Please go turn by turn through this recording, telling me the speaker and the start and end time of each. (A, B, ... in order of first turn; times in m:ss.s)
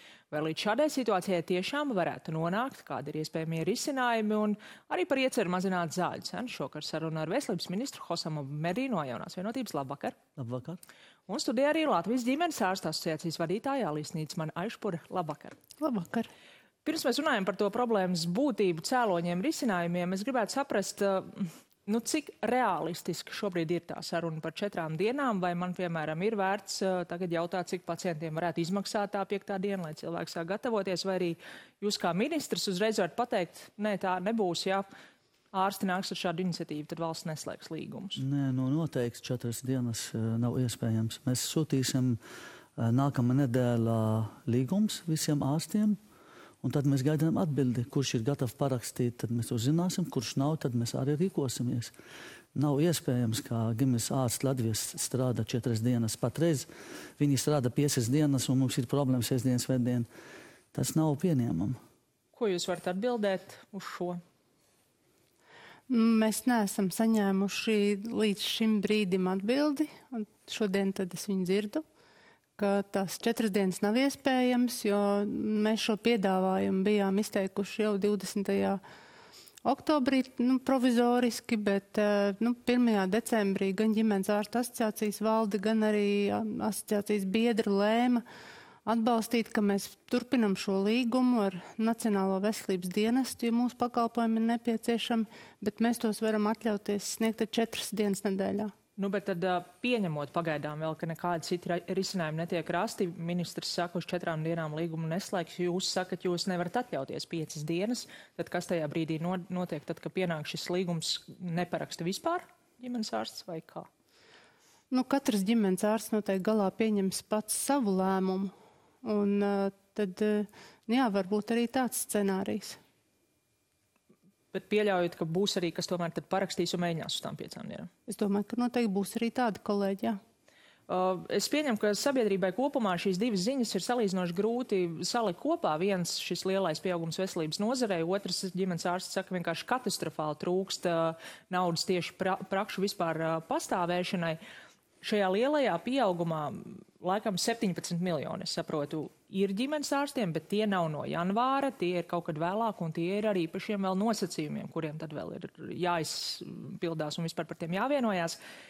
0:00.3-0:10.2 A
0:10.4-0:10.8 B
0:11.3-0:15.6 A
0:15.8-0:16.3 C
0:16.8-0:34.8 A
0:35.5-0:38.2 A
0:38.2-0:42.2 B
0:42.8-0:46.0 B
0:46.6-0:51.9 B
0:52.5-0:56.7 B
0:57.2-1:00.1 B
1:00.7-1:01.8 B
1:02.3-1:04.2 A
1:05.9-1:11.8 C
1:12.6-1:18.8 C
1:19.6-1:28.2 C
1:28.8-1:38.7 C
1:39.0-1:53.9 A
1:54.9-1:58.5 C
1:59.0-2:02.8 C
2:04.5-2:07.9 A
2:08.1-2:10.2 C
2:10.9-2:24.4 A
2:25.0-2:38.4 A